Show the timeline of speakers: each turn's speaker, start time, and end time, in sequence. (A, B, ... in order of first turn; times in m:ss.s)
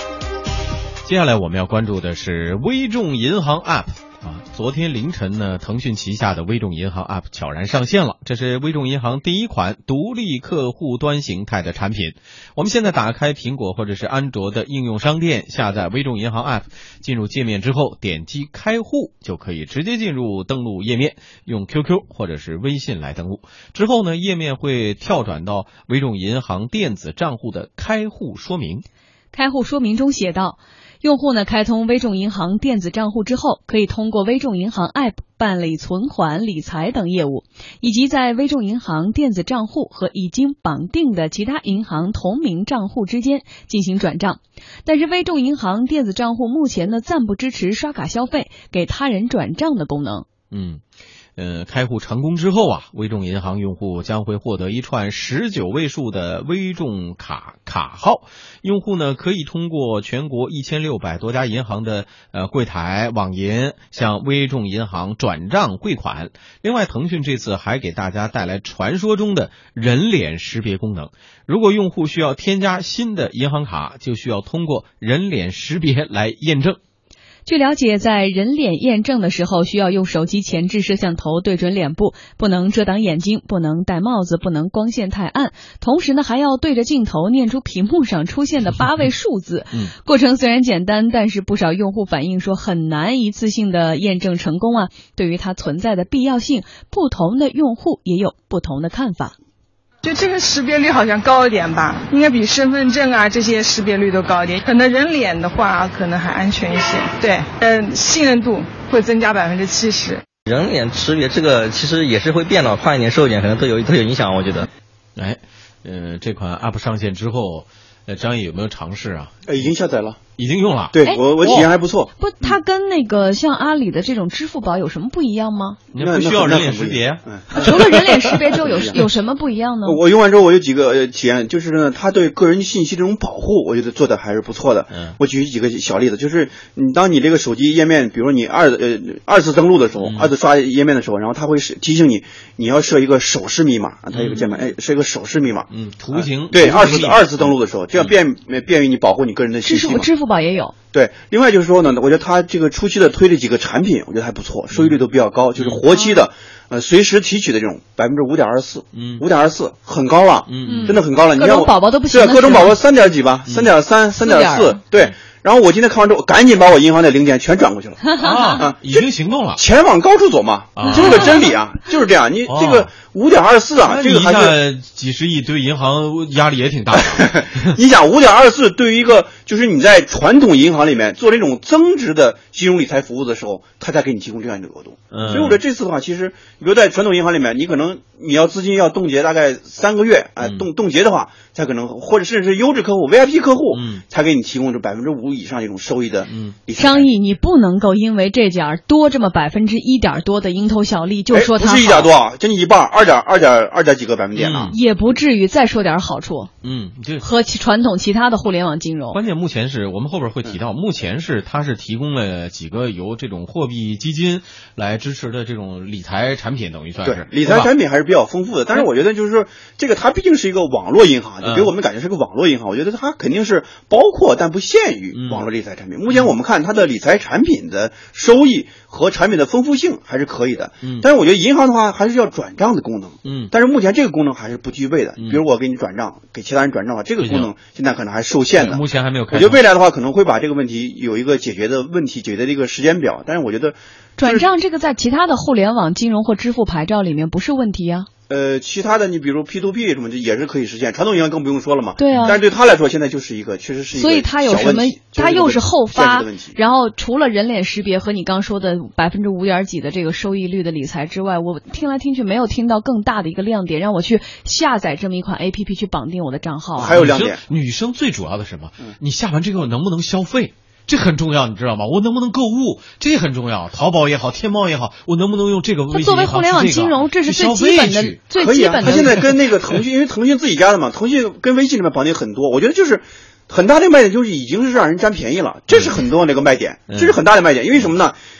0:01.0-0:28.8 A
0:29.3-0:50.2 B
0:50.5-0:50.8 A
0:51.4-1:16.8 A
1:17.4-1:39.3 B
1:40.0-1:50.2 C
1:50.5-1:54.6 D
1:55.2-1:59.3 A
1:59.5-2:00.2 E
2:00.4-2:01.6 A
2:00.9-2:02.1 E
2:01.0-2:01.5 B
2:02.2-2:05.8 B
2:05.9-2:07.8 E
2:05.9-2:08.2 A
2:07.5-2:10.0 B
2:08.6-2:09.0 E
2:09.8-2:30.1 E
2:20.0-2:20.3 A
2:24.1-2:24.5 A
2:25.7-2:27.4 A
2:29.6-2:30.7 B
2:30.9-2:54.6 E
2:34.7-2:35.0 A
2:35.6-2:35.8 A
2:38.9-2:39.2 A
2:40.5-2:41.0 A
2:40.6-2:43.1 B
2:43.5-2:43.7 A
2:44.1-2:44.8 B
2:48.2-2:49.6 A
2:50.8-2:51.4 A
2:52.5-2:52.9 A
2:53.8-2:57.7 A
2:57.0-3:17.1 E
3:05.1-3:05.6 A
3:13.7-3:14.0 A
3:16.3-3:16.6 A
3:16.7-3:22.1 B
3:21.3-3:24.7 E
3:24.3-3:24.8 A
3:24.7-3:26.5 B
3:26.6-3:27.2 A
3:27.2-3:29.2 B
3:29.1-3:37.7 A
3:37.0-4:04.5 E
3:41.4-3:41.7 A
3:45.1-3:45.5 A
3:53.2-3:53.5 A
3:57.2-3:57.5 A
3:58.6-3:59.6 A
4:04.2-4:08.1 B
4:08.3-4:16.6 E
4:12.0-4:12.4 B
4:13.9-4:27.0 B
4:26.8-4:27.4 E
4:26.8-4:38.2 A
4:35.9-4:39.2 B
4:38.3-4:48.2 E
4:38.8-4:39.8 A
4:45.7-4:46.0 A
4:46.9-4:47.2 A